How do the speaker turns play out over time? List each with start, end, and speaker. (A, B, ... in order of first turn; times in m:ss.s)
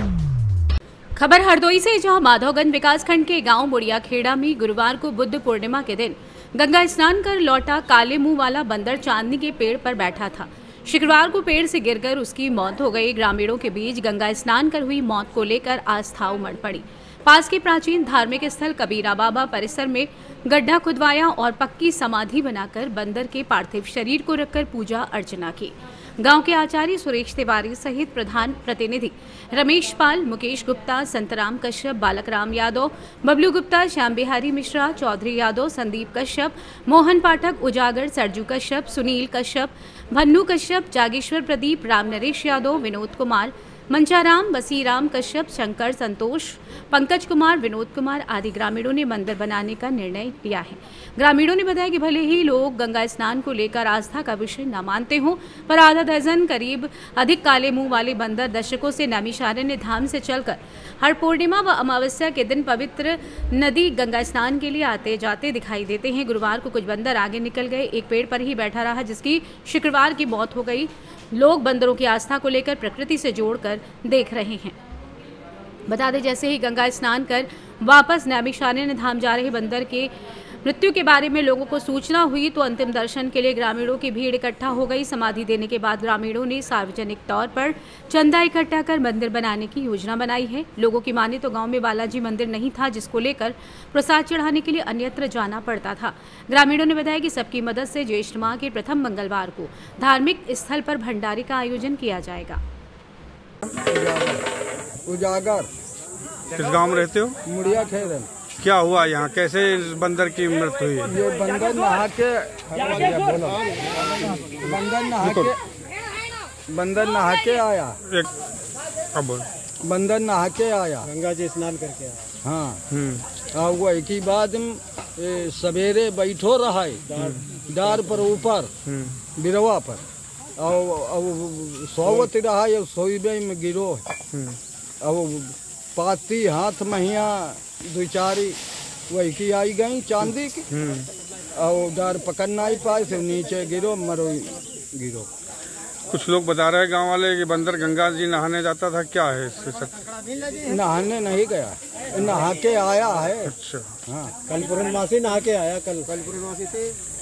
0:01.2-1:14.8 A
1:15.9-1:20.1 A
1:20.6-1:42.6 A
1:43.9-1:44.4 B
1:45.1-1:45.7 B
1:46.6-1:47.4 C
1:47.5-1:48.2 B
1:48.6-1:51.1 C
1:51.1-1:53.5 B
1:54.6-1:55.5 C
1:54.7-1:55.5 B
1:56.8-1:57.9 B
1:59.2-1:59.5 C
1:59.9-2:01.0 B
2:01.0-2:02.3 D
2:02.5-2:02.7 B
2:02.9-2:03.3 C
2:03.6-2:06.9 B
2:07.1-2:08.1 D
2:07.2-2:07.5 C
2:07.8-2:08.7 B
2:08.9-2:09.2 C
2:09.4-2:10.0 B
2:10.6-2:14.0 B
2:12.0-2:12.3 C
2:14.3-2:14.6 C
2:15.1-2:15.4 B
2:16.0-2:18.5 B
2:19.1-2:20.6 B
2:20.2-2:21.1 C
2:21.6-2:24.5 B
2:25.0-2:25.2 B
2:26.1-2:30.1 C
2:30.7-2:31.7 B
2:32.2-2:33.3 B
2:33.4-2:33.9 C
2:34.5-2:36.2 D